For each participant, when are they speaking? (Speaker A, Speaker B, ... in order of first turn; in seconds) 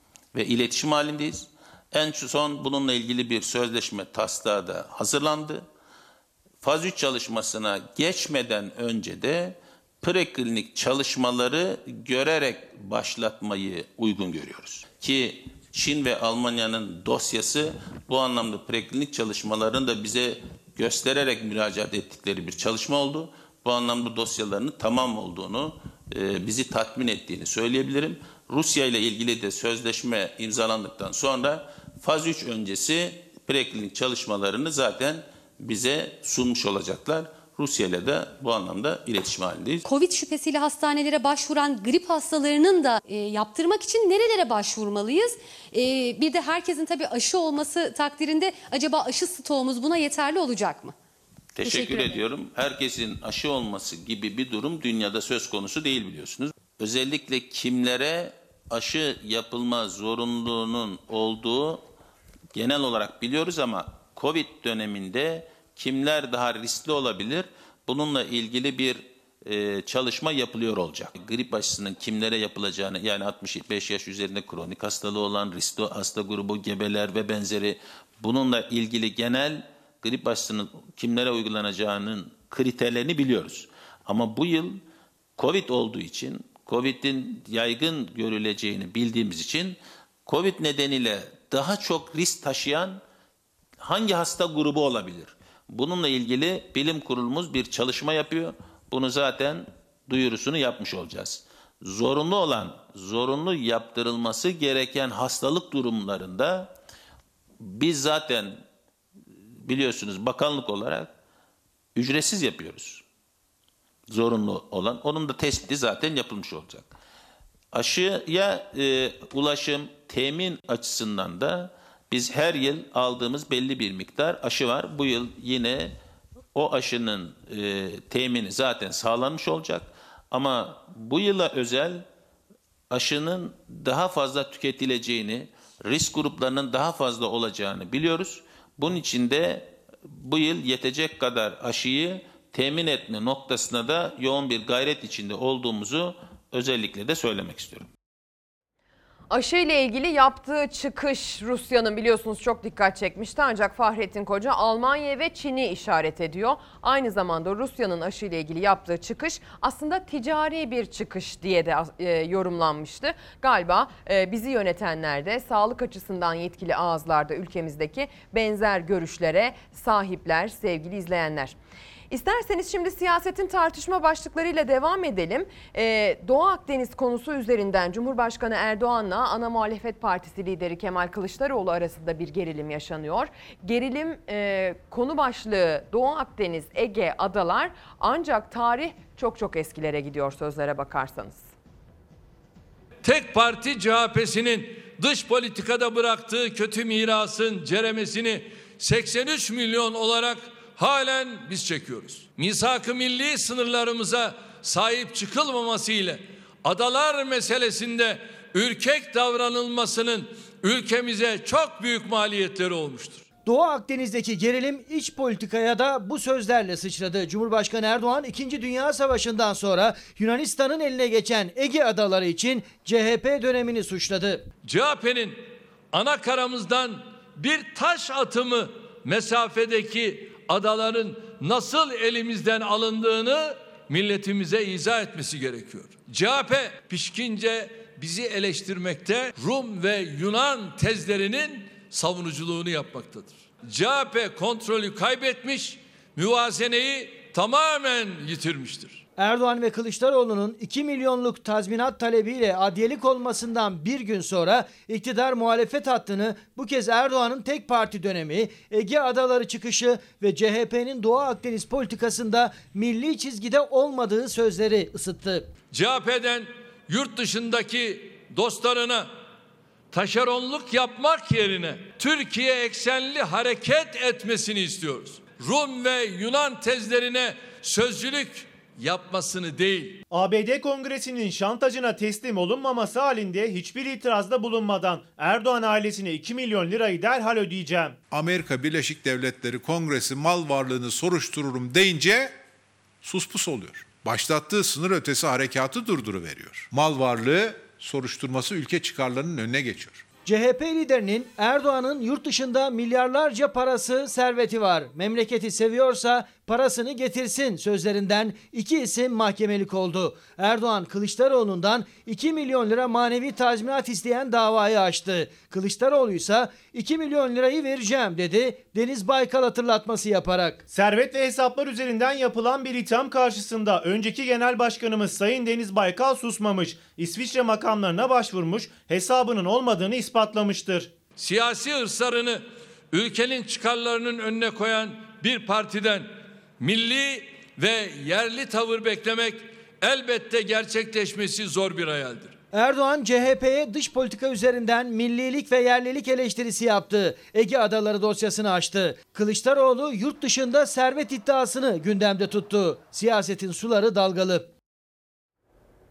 Speaker A: 0.3-5.7, 6.6-39.9, 51.6-61.8, 62.5-84.8, 85.4-93.0, 93.8-106.7, 107.6-108.6, 109.6-111.1, 112.0-113.0, 114.1-116.9, 117.7-126.0, 126.5-132.1, 132.9-147.9
Speaker B: 39.9-51.0, 51.6-52.2
Speaker C: 149.3-171.6, 172.1-191.5
Speaker D: 193.0-213.3, 224.6-249.1, 265.7-269.1, 269.9-280.0, 331.2-342.4
Speaker E: 213.5-224.4, 249.2-265.5, 300.2-320.6, 342.5-354.5
Speaker F: 280.1-288.0, 320.7-330.9
Speaker G: 288.1-292.4, 293.0-300.0